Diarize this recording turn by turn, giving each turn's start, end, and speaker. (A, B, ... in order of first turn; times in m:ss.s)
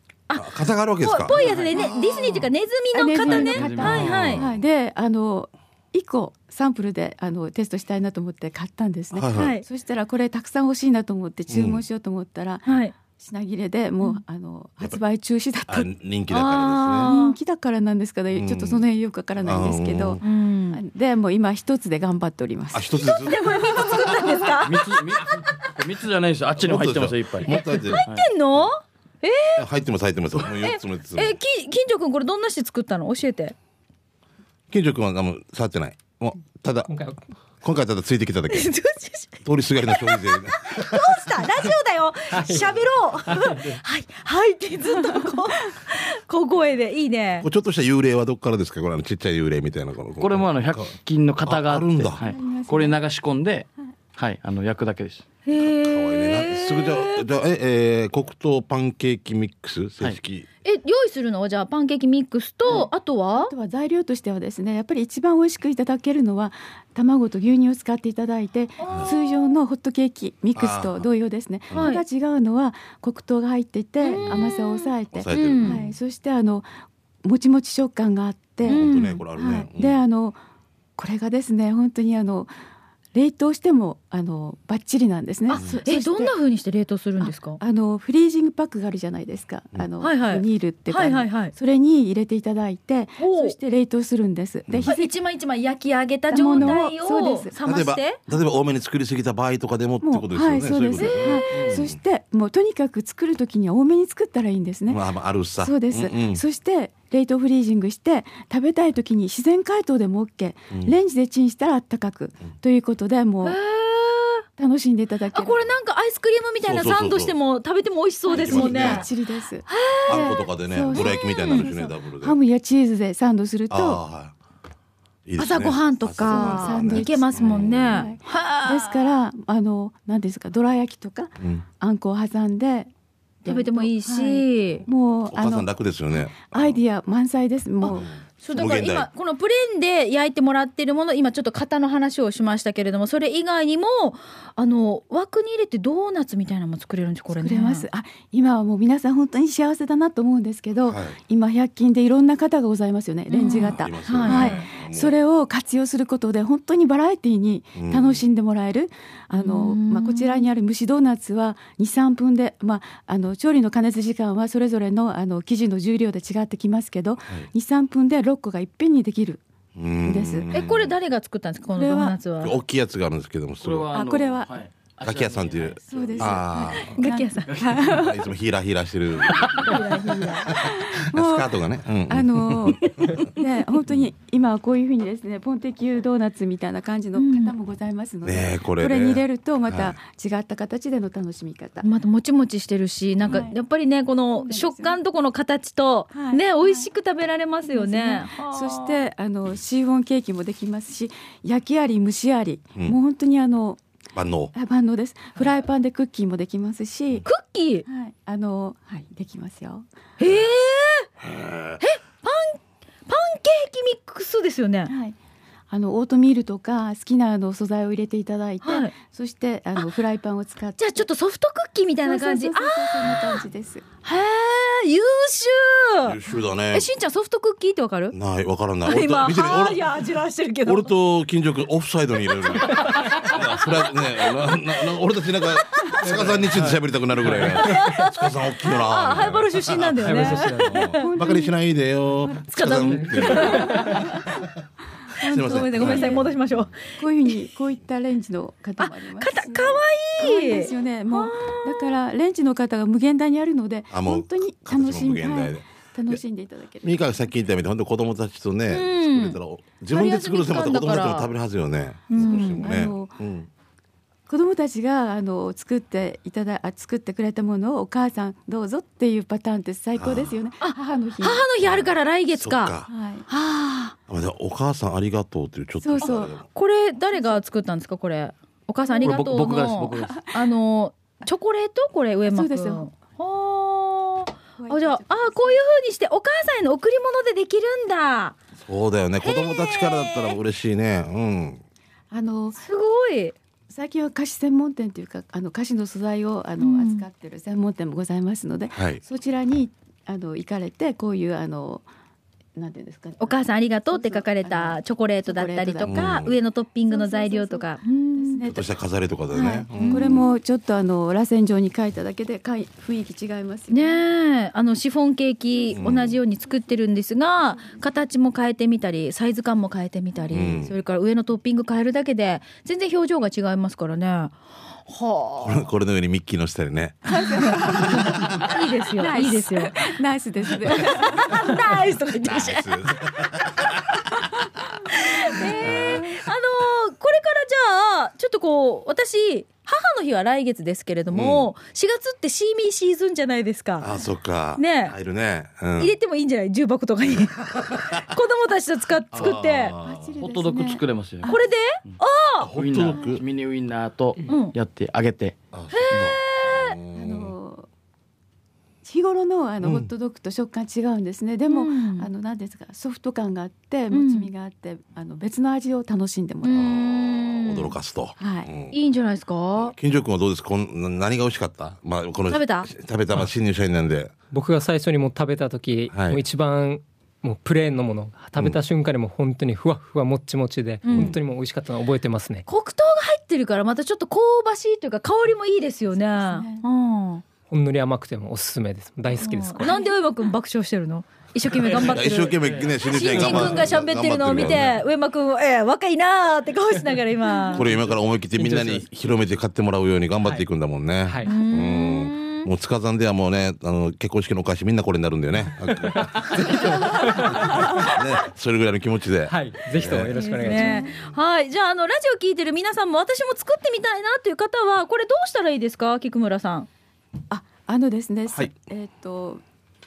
0:00.3-0:04.4 A
0:00.4-0:02.5 B
0:01.3-0:01.9 C
0:02.9-0:15.9 D
0:03.2-0:04.4 C
0:04.0-0:04.6 B
0:09.1-0:09.6 B
0:09.3-0:09.6 A
0:11.5-0:11.8 B
0:12.6-0:12.9 A
0:15.7-0:17.1 B
0:16.3-0:17.4 A
0:17.0-0:24.3 D
0:18.3-0:18.8 B
0:19.4-0:20.2 B
0:20.2-0:20.8 A
0:22.7-0:24.4 B
0:23.1-0:24.9 A
0:24.6-0:28.3 C
0:26.6-0:28.0 B
0:27.5-0:29.6 A
0:29.6-0:31.4 B
0:30.6-0:33.5 A
0:34.7-0:36.9 B
0:36.9-0:37.2 E
0:37.6-0:38.7 B
0:38.5-0:47.5 A
0:39.4-0:41.4 B
0:42.3-0:43.8 E
0:44.9-0:45.4 D
0:47.4-0:50.9 B
0:50.2-0:55.2 C
0:51.4-0:52.2 B
0:52.2-0:53.0 D
0:55.4-0:57.2 A
0:55.6-1:00.4 B
1:00.6-1:03.5 A
1:02.6-1:16.7 D
1:08.8-1:09.3 A
1:08.9-1:09.1 B
1:10.5-1:11.1 B
1:11.7-1:12.0 A
1:14.0-1:15.8 A
1:15.1-1:15.9 B
1:17.2-1:20.4 D
1:18.6-1:20.0 B
1:18.6-1:19.2 A
1:21.0-1:22.5 D
1:23.1-1:26.3 D
1:25.5-1:27.6 A
1:27.2-1:35.1 D
1:30.0-1:31.5 A
1:33.2-1:33.6 A
1:34.8-1:38.2 A
1:36.3-1:37.6 D
1:37.6-1:42.0 B
1:40.0-1:45.0 D
1:41.0-1:41.8 A
1:44.9-1:46.4 B
1:45.6-1:53.6 D
1:53.4-1:54.4 A
1:54.6-1:55.6 D
1:55.3-1:59.1 A
1:56.6-1:57.3 B
1:58.3-2:04.0 D
1:58.3-1:59.1 B
1:59.7-2:01.7 A
2:00.1-2:02.4 B
2:03.7-2:04.3 B
2:05.2-2:08.1 B
2:05.4-2:09.1 A
2:06.2-2:12.9 D
2:11.4-2:11.6 B
2:13.4-2:14.8 A
2:13.4-2:15.7 D
2:15.3-2:16.8 B
2:16.4-2:18.1 D
2:17.8-2:27.8 A
2:17.9-2:19.1 B
2:27.3-2:49.4 D
2:30.9-2:31.2 B
2:33.3-2:34.6 A
2:33.5-2:35.1 B
2:37.8-2:38.2 B
2:39.4-2:40.5 A
2:49.8-2:50.9 B
2:50.0-2:50.5 D
2:50.5-2:52.6 A
2:51.8-2:52.2 D
2:52.4-2:53.9 B
2:53.6-2:56.4 C
2:53.9-2:54.5 D
2:55.0-2:57.1 B
2:55.9-2:58.2 D
2:56.7-2:57.5 A
2:57.4-2:58.0 C
2:57.8-2:59.8 B
2:59.4-2:59.7 C
2:59.5-3:00.5 A
2:59.8-3:01.5 D
3:00.5-3:03.3 B
3:02.1-3:11.8 D
3:07.1-3:07.5 A
3:08.2-3:10.0 B
3:11.8-3:19.0 A
3:13.2-3:13.6 D
3:14.3-3:15.0 D
3:16.1-3:16.9 D
3:17.7-3:23.8 D
3:24.1-3:24.5 B
3:24.5-3:27.3 D
3:27.2-3:27.8 A
3:27.8-3:29.8 D
3:30.2-3:31.1 A
3:31.2-3:31.8 B
3:31.8-3:34.9 A
3:34.9-3:35.2 D
3:35.7-3:41.0 D
3:38.6-3:38.9 A
3:40.8-3:43.4 A
3:42.0-3:43.8 D
3:44.0-3:46.2 A
3:46.0-3:46.9 B
3:46.7-3:48.1 A
3:48.1-3:49.9 B
3:48.8-3:50.9 A
3:50.6-4:04.0 B
3:52.4-3:54.5 A
3:52.9-3:53.1 E
3:55.7-3:56.0 A
3:56.0-3:57.8 E
3:57.3-4:01.1 A
4:00.0-4:00.9 E
4:00.9-4:01.5 D
4:02.5-4:04.1 A
4:03.3-4:04.2 D
4:03.7-4:04.0 E
4:05.2-4:06.7 A
4:05.2-4:06.7 B
4:05.3-4:06.3 D
4:07.0-4:17.2 D
4:08.8-4:12.0 A
4:13.9-4:16.2 B
4:16.8-4:23.5 B
4:18.7-4:19.4 A
4:19.9-4:21.3 A
4:22.1-4:22.7 A
4:22.2-4:23.2 D
4:24.3-4:31.4 D
4:30.0-4:30.4 B
4:30.6-4:33.9 A
4:31.6-4:32.9 B
4:32.9-4:33.3 D
4:34.1-4:36.4 B
4:35.8-4:36.4 D
4:36.0-4:48.4 A
4:37.1-4:37.4 D
4:38.8-4:39.2 D
4:39.0-4:40.2 C
4:39.9-4:40.3 D
4:42.3-4:42.9 D
4:44.6-4:45.6 D
4:48.6-4:51.6 B
4:49.2-4:50.4 A
4:52.1-4:52.6 D
4:52.6-4:53.3 A
4:53.7-5:01.8 D
4:56.6-4:57.0 A
4:58.7-4:59.0 B
5:02.6-5:06.2 D
5:03.2-5:08.4 A
5:05.9-5:06.3 B
5:06.9-5:08.7 D
5:08.4-5:10.3 B
5:09.3-5:10.2 A
5:09.7-5:14.0 D
5:13.7-5:25.7 A
5:15.7-5:16.2 B
5:20.3-5:20.7 B
5:25.4-5:28.4 B
5:27.0-5:31.5 D
5:27.1-5:29.9 A
5:30.6-5:33.7 A
5:32.2-5:34.3 B
5:34.9-5:43.9 A
5:35.3-5:36.2 D
5:35.7-5:36.0 B
5:41.1-5:41.5 B
5:43.8-5:45.9 B
5:44.6-5:44.9 A
5:45.8-5:49.8 A
5:47.1-5:48.1 B
5:49.1-5:50.1 B
5:49.8-5:51.4 D
5:50.2-5:52.0 C
5:51.2-5:52.5 A
5:52.4-5:53.2 B
5:52.6-5:55.4 C
5:54.2-5:54.5 A
5:55.5-5:57.3 B
5:55.7-5:56.8 A
5:56.9-5:57.7 D
5:58.8-6:06.7 D
5:59.6-5:59.9 B
6:01.5-6:02.1 A
6:03.9-6:04.3 A
6:06.4-6:07.7 A
6:06.5-6:08.8 B
6:08.2-6:08.5 D
6:08.7-6:09.7 A
6:09.6-6:14.1 B
6:12.3-6:12.7 A
6:14.3-6:22.4 E
6:15.9-6:16.2 B
6:20.8-6:21.2 A
6:20.9-6:21.2 B
6:22.5-6:27.2 A
6:25.9-6:26.6 D
6:27.5-6:29.8 E
6:29.2-6:37.7 A
6:29.6-6:29.9 D
6:31.7-6:34.8 B
6:32.4-6:32.7 C
6:37.5-6:50.2 B
6:38.4-6:38.8 E
6:41.0-6:41.3 E
6:41.2-6:42.5 A
6:45.8-6:47.8 E
6:49.3-6:50.9 E
6:50.1-6:56.7 A
6:50.5-6:50.9 D
6:57.3-6:59.4 D